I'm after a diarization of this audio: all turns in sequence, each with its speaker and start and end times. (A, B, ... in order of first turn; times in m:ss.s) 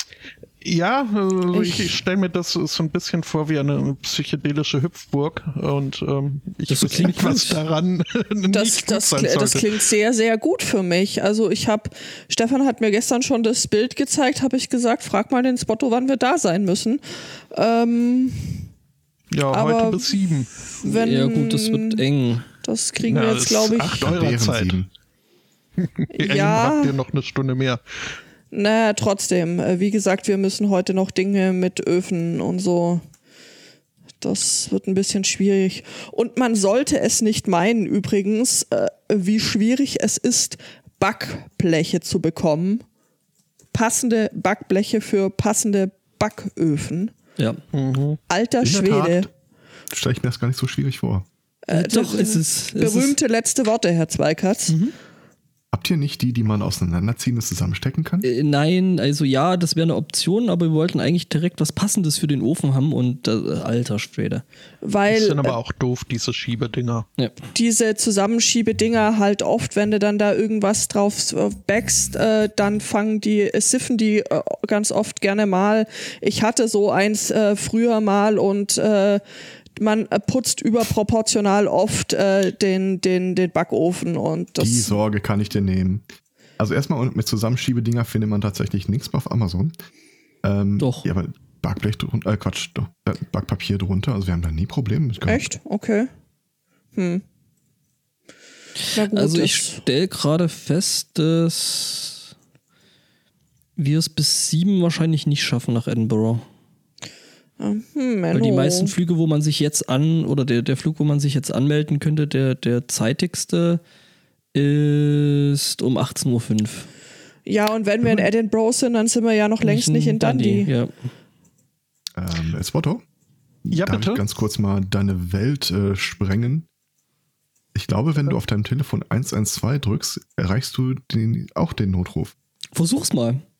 0:00.6-0:09.8 A
0:01.5-0:02.0 B
0:06.7-0:07.6 C
0:08.5-0:17.0 B
0:17.5-0:18.6 B
0:19.3-0:20.6 A
0:19.5-0:20.1 B
0:20.8-0:22.0 B
0:20.8-0:22.5 C
0:22.6-0:24.1 B
0:23.0-0:24.8 A
0:24.0-0:24.9 D
0:25.8-0:27.8 A
0:26.1-0:26.9 B
0:28.5-0:33.0 B
0:34.2-0:42.8 B
0:43.7-0:47.1 B
0:47.7-0:48.2 A
0:48.3-0:49.3 B
0:48.6-0:49.3 D
0:49.9-0:51.2 D
0:51.6-0:54.8 B
0:51.7-0:53.2 C
0:54.7-0:54.9 C
0:55.7-0:58.3 D
0:58.2-1:04.4 C
1:04.8-1:05.6 B
1:05.1-1:07.1 A
1:07.5-1:19.2 B
1:19.8-1:25.0 B
1:24.6-1:26.0 D
1:26.6-1:29.7 D
1:30.4-1:35.5 D
1:30.8-1:31.0 C
1:35.2-1:36.1 B
1:36.9-1:37.2 B
1:38.9-1:39.8 B
1:39.0-1:42.2 C
1:43.8-1:46.4 C
1:47.6-1:48.9 B
1:48.3-1:53.8 C
1:54.5-1:56.9 C
1:57.4-2:00.7 B
1:59.6-2:00.9 C
2:02.2-2:03.0 D
2:03.6-2:06.7 D
2:03.7-2:04.2 A
2:07.7-2:12.3 D
2:12.7-2:13.4 C